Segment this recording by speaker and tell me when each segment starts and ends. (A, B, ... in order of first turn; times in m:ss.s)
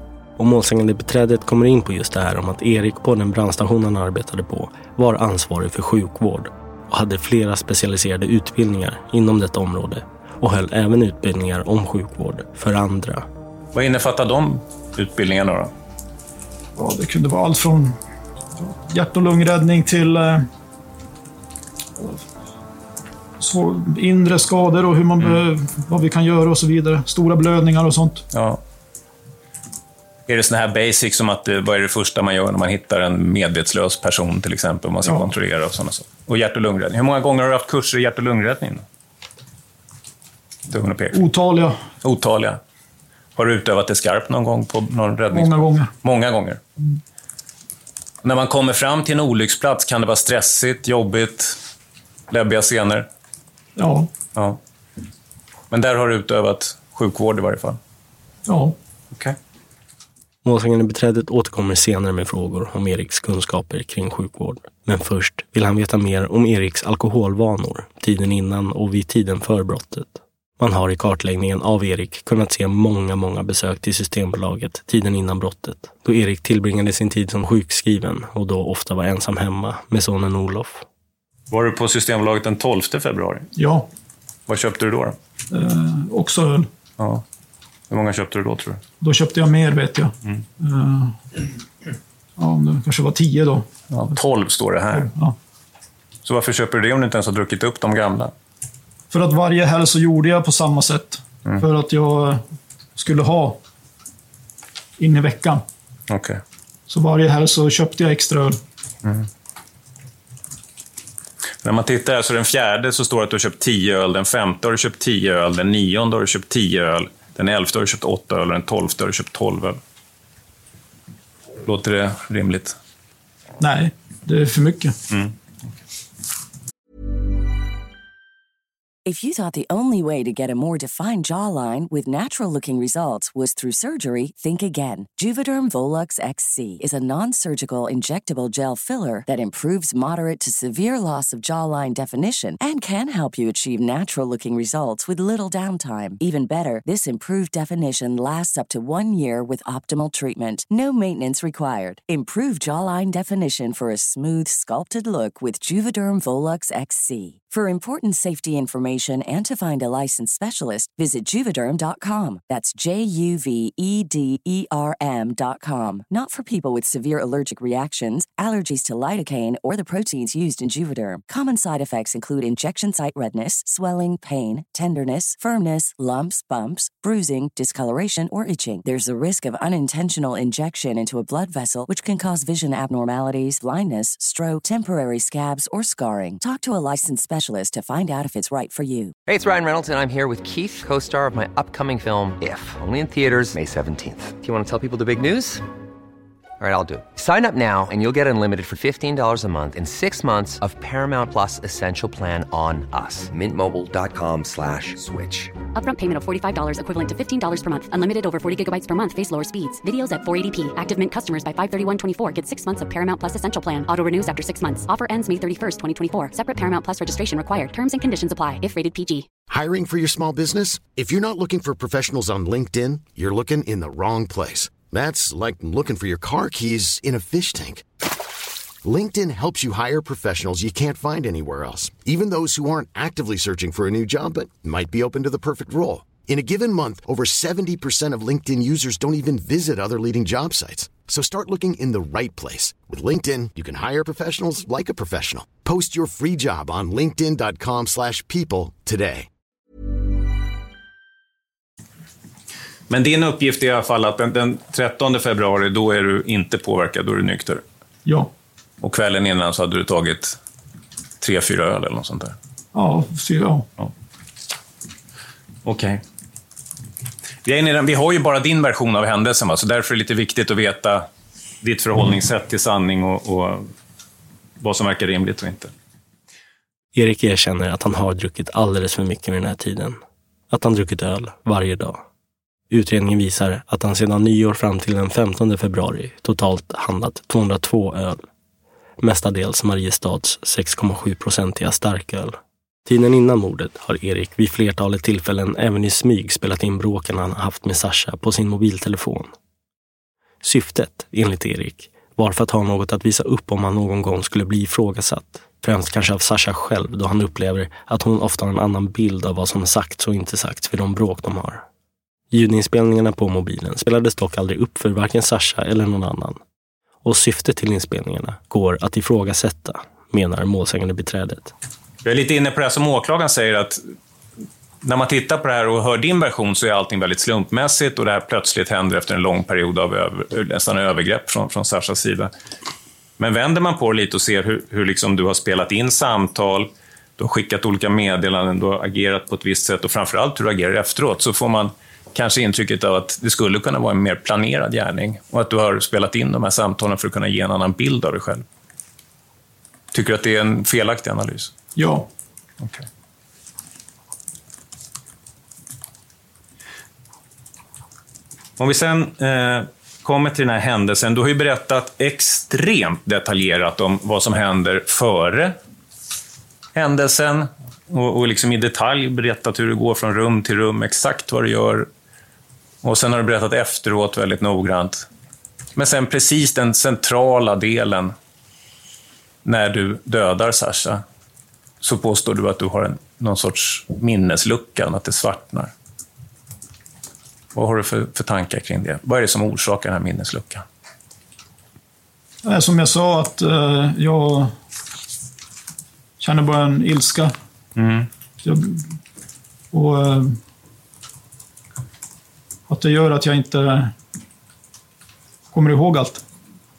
0:00.4-0:13.3 A
0:13.7-0:15.7 B
0:16.8-0:18.0 C
0:18.6-0:20.5 C
0:23.4-0:28.2 C
0:28.3-0:28.6 B
0:30.3-0:38.8 B
0:35.0-0:35.3 C
0:40.7-0:41.2 B
0:41.1-0:41.8 C
0:42.0-0:42.6 B
0:43.4-0:46.6 B
0:45.3-0:45.9 C
0:48.2-0:51.6 B
0:52.3-0:53.1 B
0:53.8-0:54.1 C
0:55.7-0:57.8 B
0:58.5-0:58.8 C
1:00.4-1:20.8 A
1:21.5-1:23.5 B
1:23.6-1:23.9 C
1:24.5-1:25.2 B
1:25.5-1:26.7 C
1:27.0-1:27.2 B
1:27.9-1:28.8 B
1:29.0-1:31.4 C
1:32.4-1:33.7 C
1:33.9-1:35.1 B
1:34.9-1:35.4 C
1:36.2-1:38.3 B
1:39.1-1:42.4 C
1:43.0-1:43.6 C
1:45.0-1:45.6 C
1:46.1-1:46.4 B
1:46.9-1:48.6 C
1:51.6-1:59.8 B
2:01.6-2:02.8 B
2:03.6-2:05.0 C
2:09.1-3:09.2 D
3:09.3-3:15.6 E
3:16.6-3:25.6 E
3:25.8-3:39.3 F
3:39.5-3:47.8 G
3:48.8-4:09.3 G
4:12.9-4:17.6 B
4:18.0-4:18.3 C
4:18.8-4:20.4 B
4:21.2-4:22.4 B
4:22.7-4:23.7 C
4:25.6-4:26.0 B
4:27.4-4:31.1 B
4:31.6-4:33.7 B
4:34.6-4:35.7 B
4:37.0-4:40.0 A
4:40.5-4:42.0 A
4:42.7-4:48.2 A
4:49.0-4:59.3 A
5:00.4-5:11.6 A
5:12.3-5:16.4 A
5:17.0-5:21.5 A
5:22.0-5:23.8 B
5:24.8-5:32.3 B
5:33.2-5:48.4 B
5:49.9-5:51.5 B
5:51.8-5:52.1 C
5:58.6-6:05.6 B
6:06.8-6:11.9 B
6:12.8-6:15.1 B
6:15.8-6:18.2 B
6:19.4-6:21.0 B
6:21.8-6:25.7 B
6:27.6-6:30.6 B
6:32.4-6:34.5 C
6:36.2-6:37.3 C
6:37.8-6:38.1 B
6:38.4-6:38.9 C
6:39.7-6:40.4 C
6:42.7-6:43.9 C
6:45.5-6:46.2 C